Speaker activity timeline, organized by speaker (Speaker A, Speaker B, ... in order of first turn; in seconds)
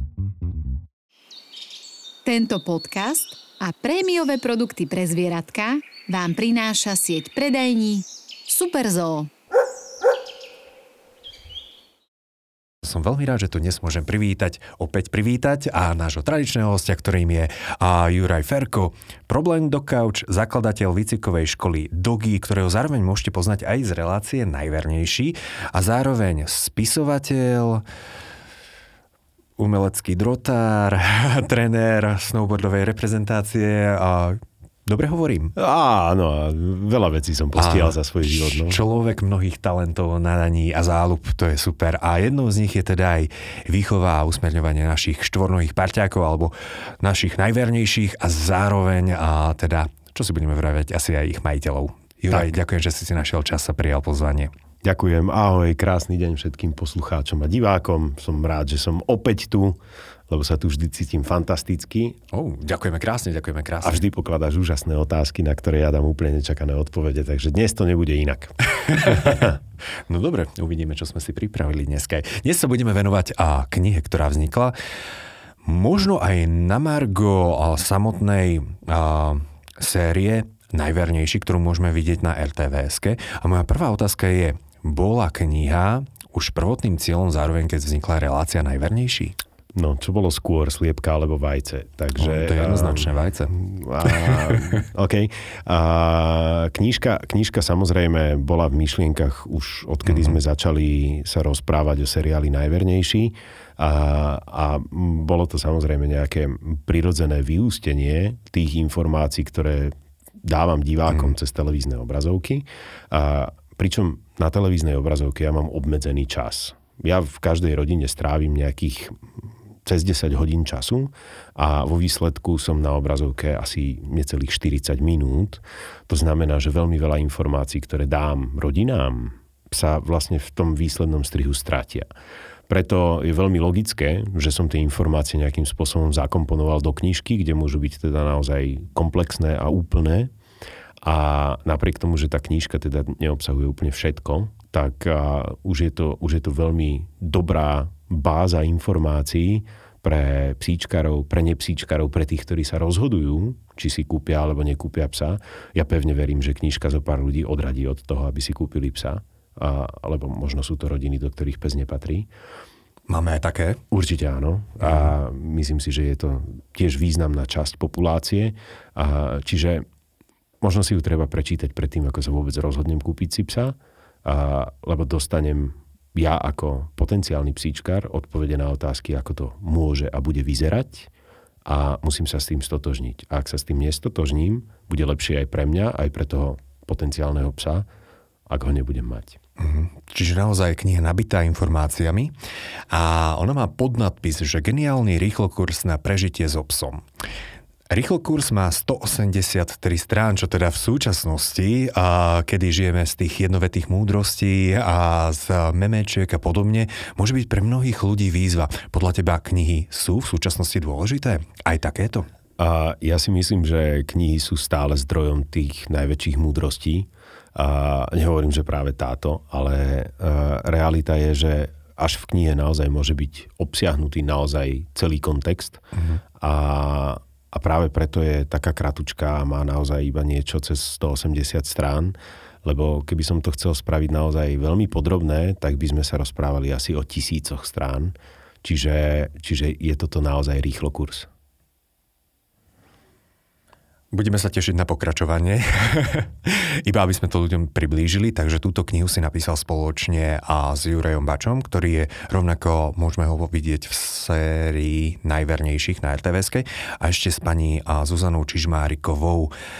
Speaker A: 2.2-9.3
Speaker B: 12.8-27.8, 29.6-35.5, 37.6-54.5, 62.3-64.0, 68.9-69.5, 70.1-74.8, 75.6-89.4, 92.2-94.7, 100.1-100.4, 163.1-163.8, 164.8-165.1, 189.6-192.3, 192.9-197.0, 197.9-212.3, 225.9-226.2, 244.1-259.5
Speaker C: 35.6-38.8, 54.8-62.2, 63.8-69.5, 89.8-132.1, 132.7-140.3, 141.0-162.3, 163.9-169.8, 170.6-181.1, 181.7-187.9, 188.5-189.4, 212.6-225.8, 226.4-241.3